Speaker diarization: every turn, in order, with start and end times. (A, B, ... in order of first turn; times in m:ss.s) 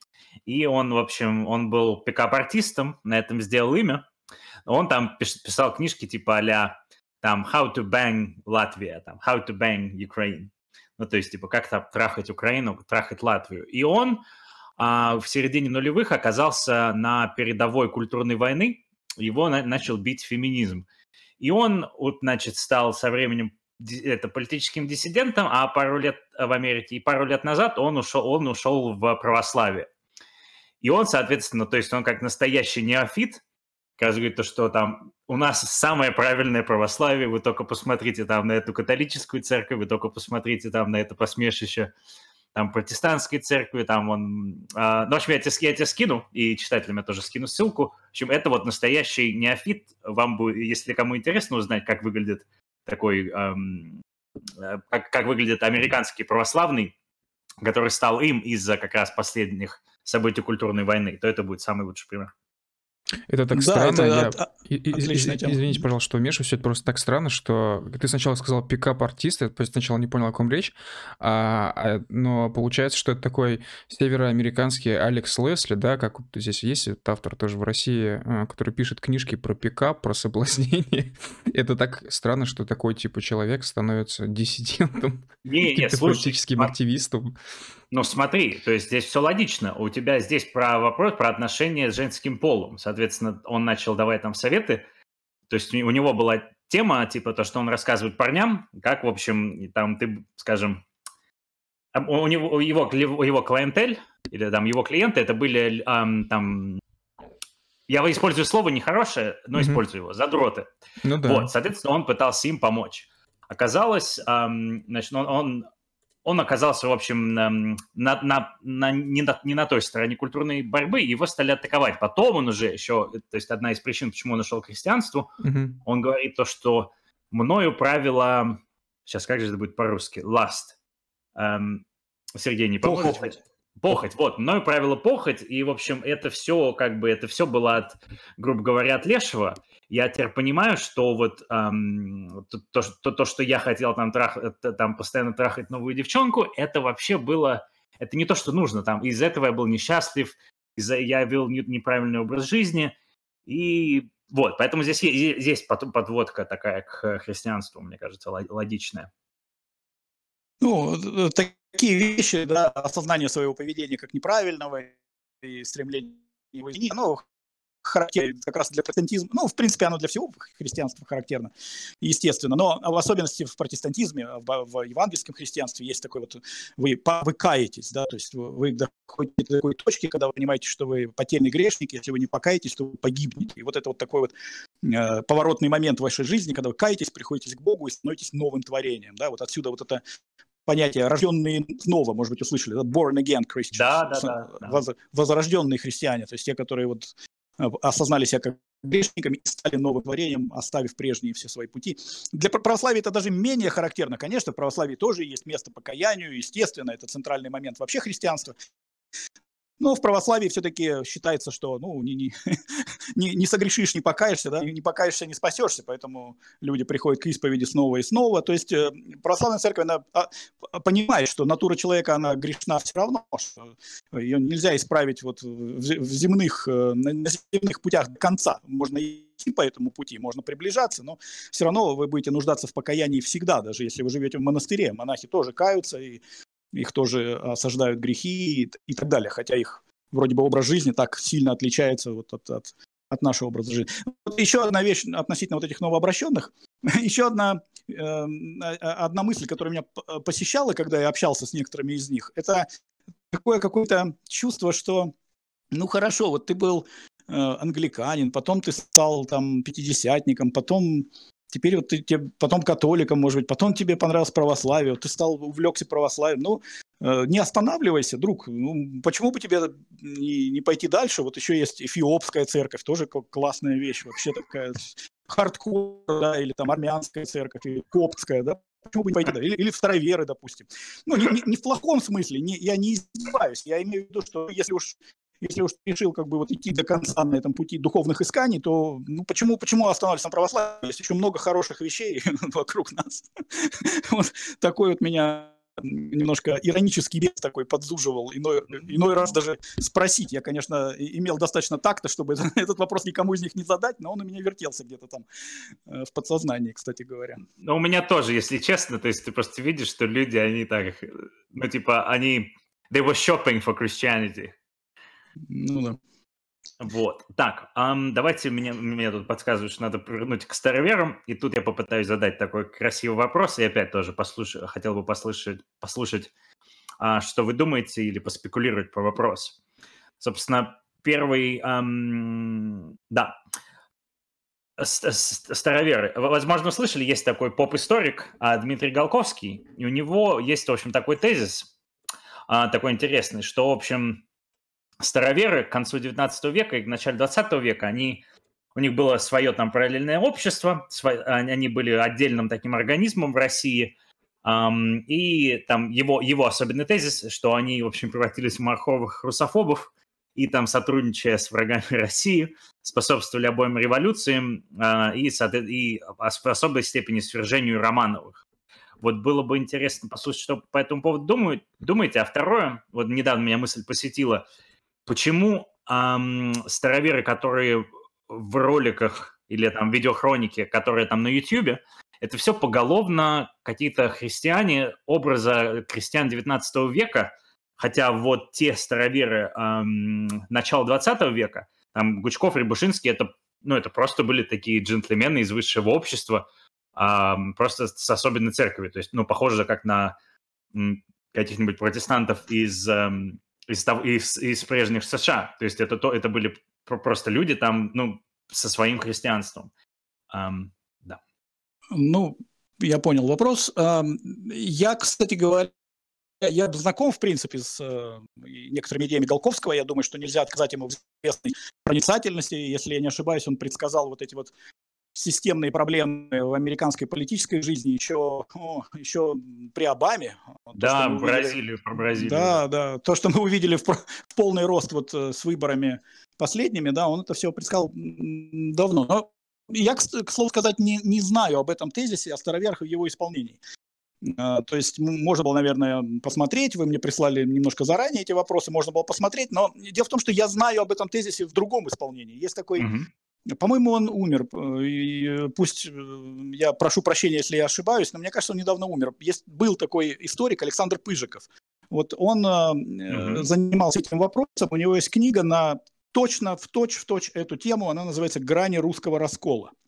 0:00.4-0:04.0 A
0:04.6-0:14.2 A
0:14.8-0:20.8 A
0:21.4-0:29.9 A
0:30.8-0:33.4 A
0:34.0-0:41.9 A
0:42.5-0:54.0 A
0:54.6-0:56.9 A
0:57.6-1:02.3 A
1:03.3-1:27.4 B
1:03.5-1:05.8 C
1:25.4-1:26.7 A
1:27.9-1:34.8 A
1:35.5-1:40.8 A
1:41.9-1:46.8 A
1:47.9-1:50.7 A
1:49.5-1:49.8 B
1:51.0-1:51.5 B
1:51.2-1:55.7 A
1:56.2-2:05.3 A
2:05.4-2:05.8 B
2:05.9-2:10.7 A
2:11.4-2:11.8 A
2:12.4-2:32.9 A
2:12.8-2:13.3 C
2:33.5-2:39.1 A
2:40.6-2:47.2 C
2:47.8-2:51.5 C
2:52.0-3:10.0 C
3:10.6-3:28.5 C
3:13.7-3:14.8 A
3:29.8-3:56.2 C
3:56.7-4:12.7 C
4:13.3-4:15.1 C
4:15.7-5:05.3 C
5:05.9-5:07.4 C
5:07.6-5:14.6 A
5:15.5-5:16.0 C
5:16.8-5:26.3 A
5:27.0-5:29.6 A
5:30.2-5:33.3 A
5:34.8-5:41.7 A
5:42.5-5:44.2 A
5:45.0-5:48.2 A
5:48.7-5:53.9 A
5:54.4-6:08.4 A
6:09.0-6:14.4 A
6:15.0-6:36.4 A
6:37.0-6:40.1 A
6:40.7-6:49.7 A
6:50.3-6:51.2 A
6:51.9-6:55.7 C
6:56.4-7:04.5 C
7:05.1-7:11.6 C
7:10.8-7:12.6 A
7:12.1-7:23.6 C
7:24.2-7:32.9 C
7:32.8-7:33.1 A
7:33.5-7:49.7 C
7:43.1-7:43.5 A